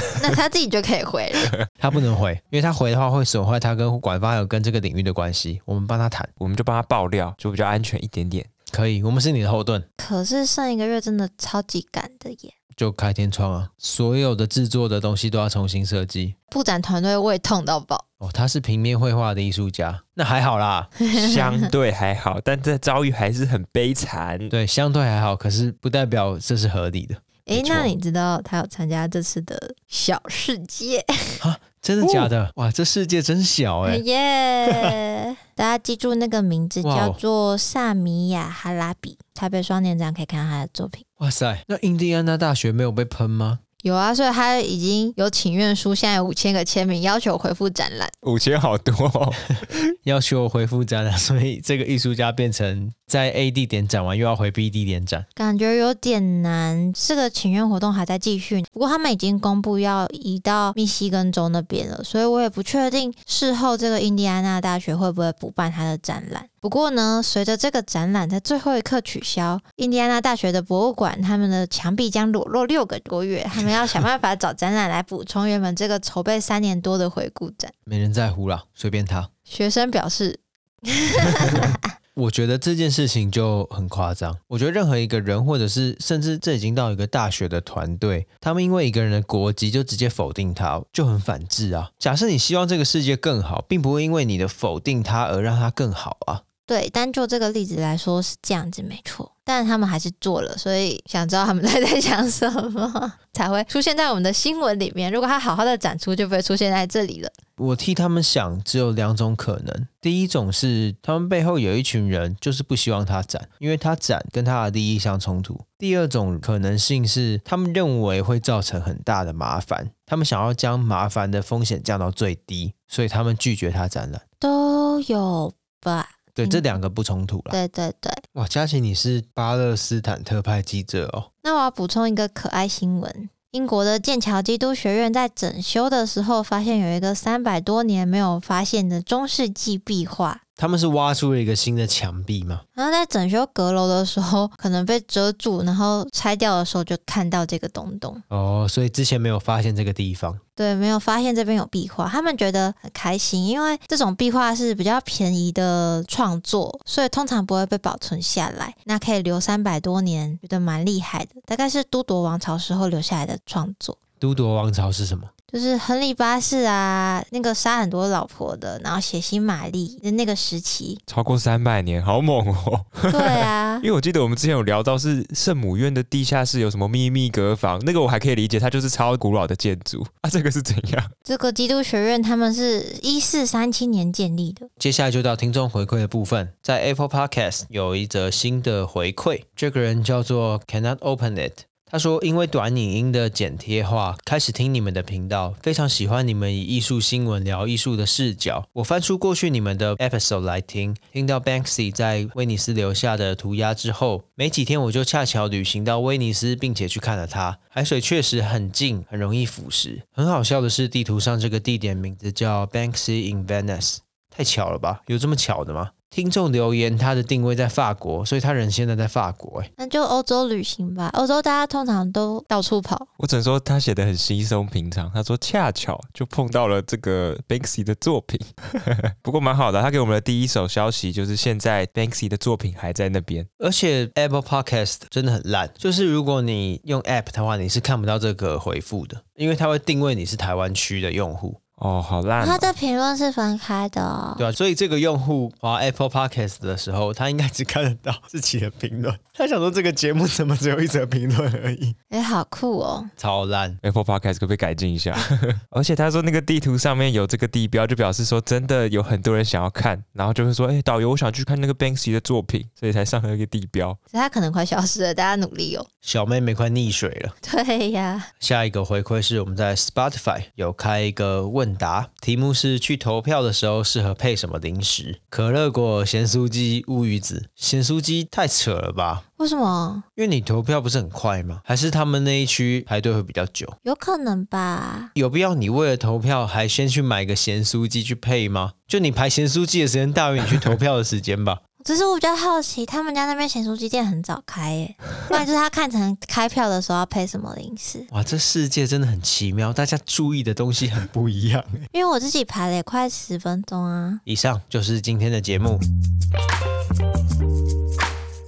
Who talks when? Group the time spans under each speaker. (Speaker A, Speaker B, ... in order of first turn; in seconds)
Speaker A: 0.2-1.5, 10.0-12.5, 16.5-18.0, 21.0-21.7, 27.4-31.4, 33.8-41.0, 43.8-48.1, 55.4-77.7, 79.5-81.9, 96.7-107.3, 124.4-126.6, 127.5-128.2, 131.4-140.4, 142.8-148.2, 150.6-164.0, 165.5-171.0, 173.1-173.8, 181.2-184.7, 219.8-223.1, 242.4-244.5, 252.1-253.1, 264.1-265.9, 267.4-268.3, 279.4-280.0, 283.8-285.1, 291.8-298.1, 301.9-304.2
Speaker B: 1.8-6.3, 8.7-9.8, 12.8-16.3, 18.2-20.9, 24.5-27.9, 31.4-34.0, 34.7-34.9, 36.8-37.2, 41.2-43.6, 50.0-55.2, 77.9-79.3, 81.4-96.4, 107.6-124.2, 126.3-127.6, 128.3-131.3, 140.6-142.6, 148.3-150.4, 164.2-165.3, 184.8-219.7, 233.6-241.6, 244.4-252.0, 253.2-253.8, 266.0-267.3, 268.4-279.2, 280.2-283.8, 285.1-291.6, 298.1-301.9, 304.2-305.8
Speaker C: 6.4-8.5, 21.1-24.5, 32.0-32.3, 48.2-49.8, 171.1-181.1, 223.2-233.5, 241.8-242.7, 253.8-264.0